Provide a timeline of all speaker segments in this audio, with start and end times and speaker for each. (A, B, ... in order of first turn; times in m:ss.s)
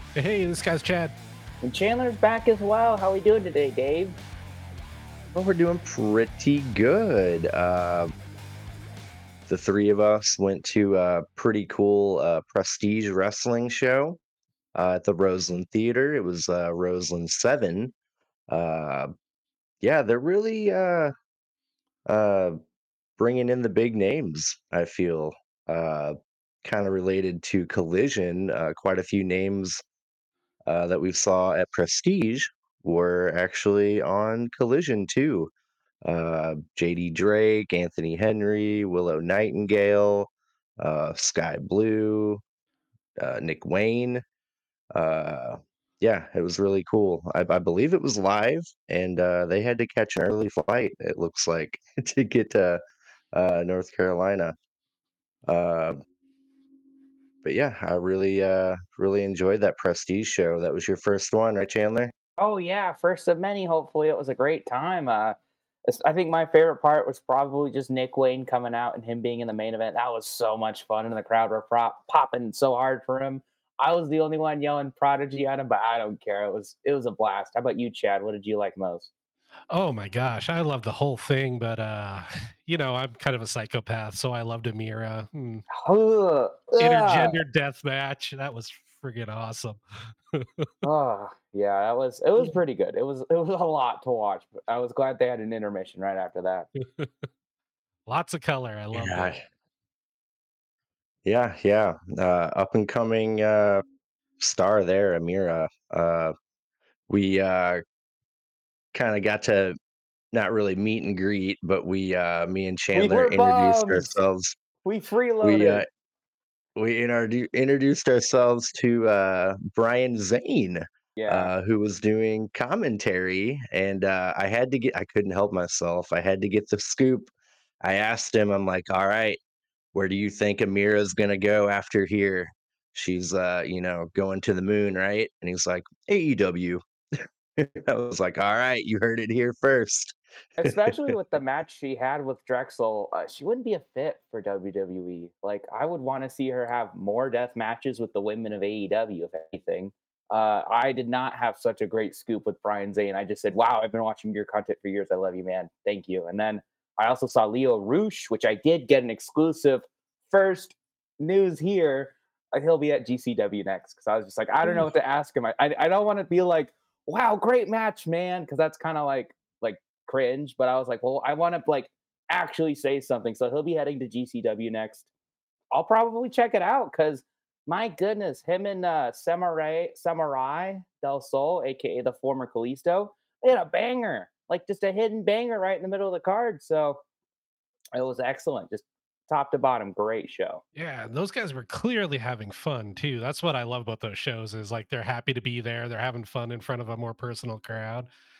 0:00.1-0:01.1 A
0:01.6-0:04.2 B
0:05.3-0:08.1 C
0:09.5-0:14.2 C
0:14.7-0:17.9 C
0:18.5-0:19.1 C
0:19.8-0:21.1 C
0:22.1-0:22.6 C
0:23.2-0:29.8 C
0:30.7-0:35.5 C
0:36.0-0:42.4 C
0:43.2-0:44.2 C
0:44.9-0:52.8 C
0:53.3-0:54.5 C
0:55.5-0:56.0 C
0:57.4-1:02.1 C
1:02.4-1:19.1 B
1:19.7-1:25.6 A
1:25.7-1:27.4 B
1:26.8-1:30.7 A
1:30.8-1:36.7 B
1:37.0-1:37.2 A
1:38.1-1:39.4 A
1:38.9-1:39.4 C
1:41.2-1:43.8 C
1:44.4-1:46.3 C
1:47.1-1:47.8 C
1:48.9-1:49.7 C
1:50.3-1:54.6 C
1:52.9-1:54.1 B
1:54.8-1:55.8 B
1:55.4-1:55.8 C
1:56.8-2:09.4 C
2:01.2-2:01.5 B
2:09.9-2:16.8 C
2:17.6-2:21.1 C
2:20.6-2:55.1 B
2:55.7-3:07.0 B
3:07.9-3:10.6 B
3:10.7-3:18.1 A